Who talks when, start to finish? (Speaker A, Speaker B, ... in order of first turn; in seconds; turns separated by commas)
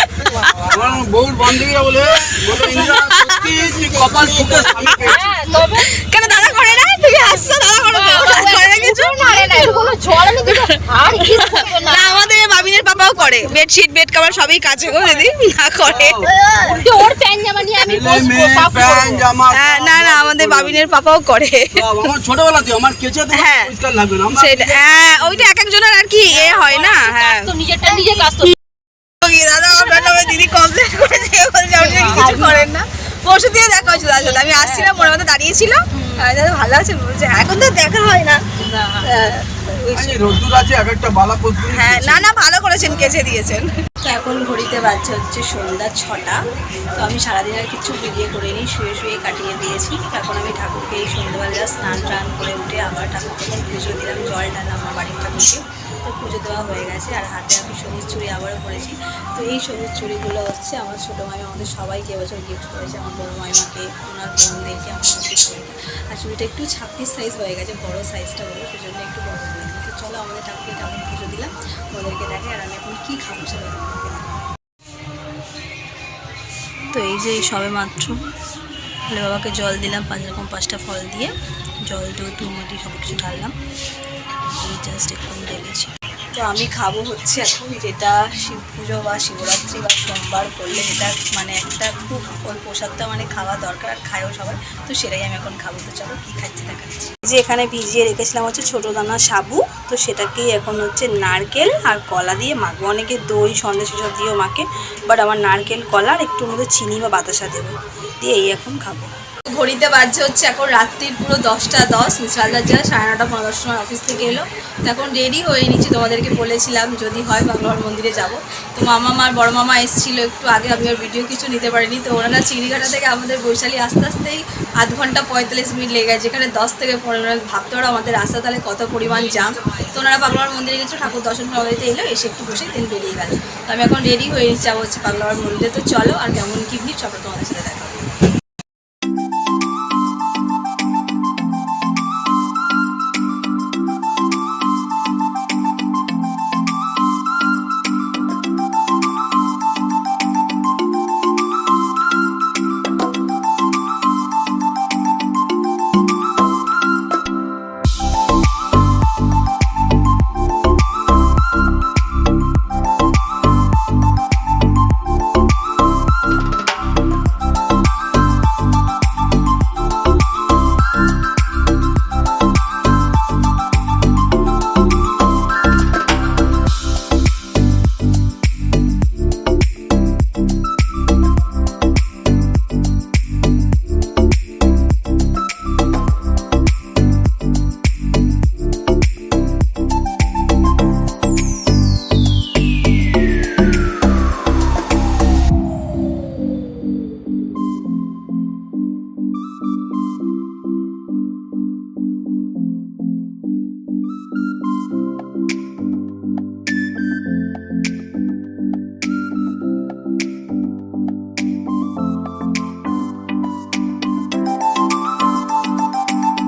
Speaker A: 0.6-5.3, Speaker B: 2.7-3.4, Speaker C: 4.9-12.2, Speaker B: 6.0-9.9, Speaker B: 10.5-10.8, Speaker B: 11.4-16.2, Speaker A: 15.8-16.6, Speaker C: 16.2-19.2, Speaker A: 17.8-20.8, Speaker B: 19.5-21.8, Speaker A: 21.8-25.3, Speaker B: 23.3-23.7, Speaker B: 24.3-27.5, Speaker C: 26.3-28.6, Speaker B: 29.2-38.4, Speaker C: 31.8-32.7, Speaker C: 34.0-35.1, Speaker B: 39.0-40.2, Speaker A: 39.9-42.3, Speaker B: 41.7-46.4, Speaker A: 42.8-43.1, Speaker B: 46.9-74.4, Speaker B: 76.9-78.2, Speaker B: 79.1-81.3, Speaker B: 81.9-83.5, Speaker B: 84.6-138.1